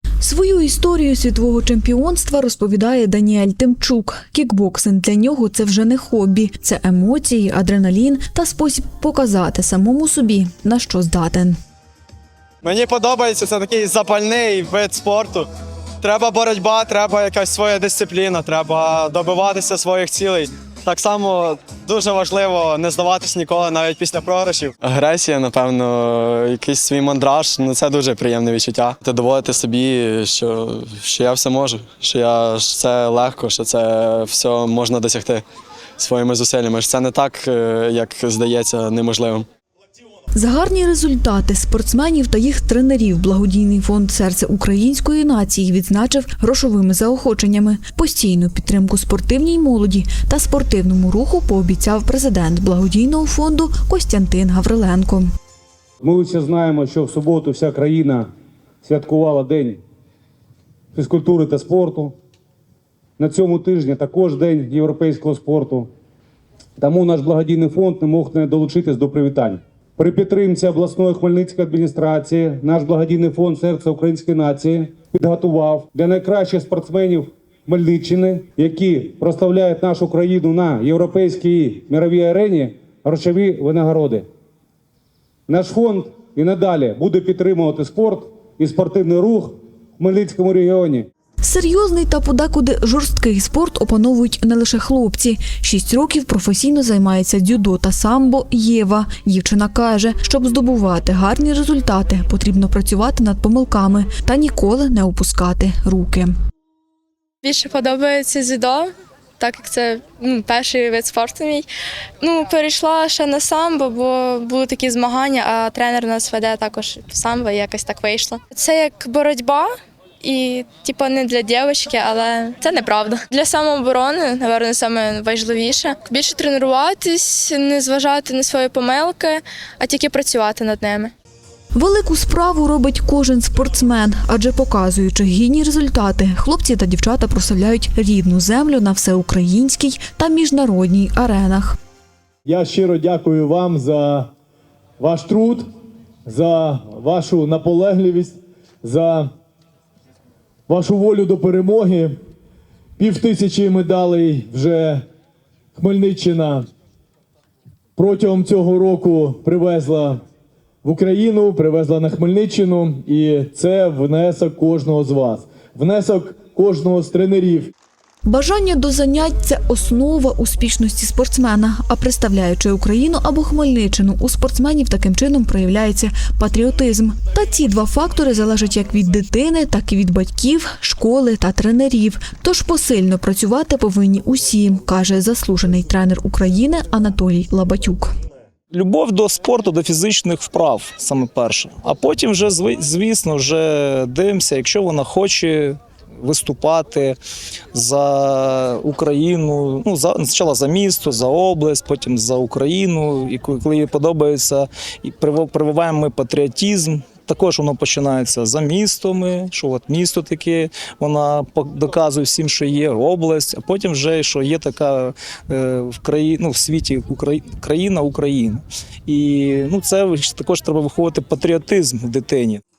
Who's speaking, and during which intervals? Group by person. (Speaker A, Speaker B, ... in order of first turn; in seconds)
Speaker A: 0.2-11.6, 40.3-55.3, 91.4-106.3, 131.7-141.8, 168.2-188.1
Speaker B: 12.6-15.5, 16.0-35.4, 36.0-39.5
Speaker C: 56.0-58.3, 58.8-59.8, 60.9-62.1, 63.2-65.9, 66.8-84.2, 85.5-91.1
Speaker D: 107.4-108.9, 109.4-111.7, 112.2-119.7, 120.2-131.1
Speaker E: 142.4-144.3, 145.0-145.7, 146.2-149.3, 150.7-152.2, 153.0-155.0, 155.7-156.7, 157.9-160.2, 160.8-167.7
Speaker F: 188.7-197.2, 197.7-222.6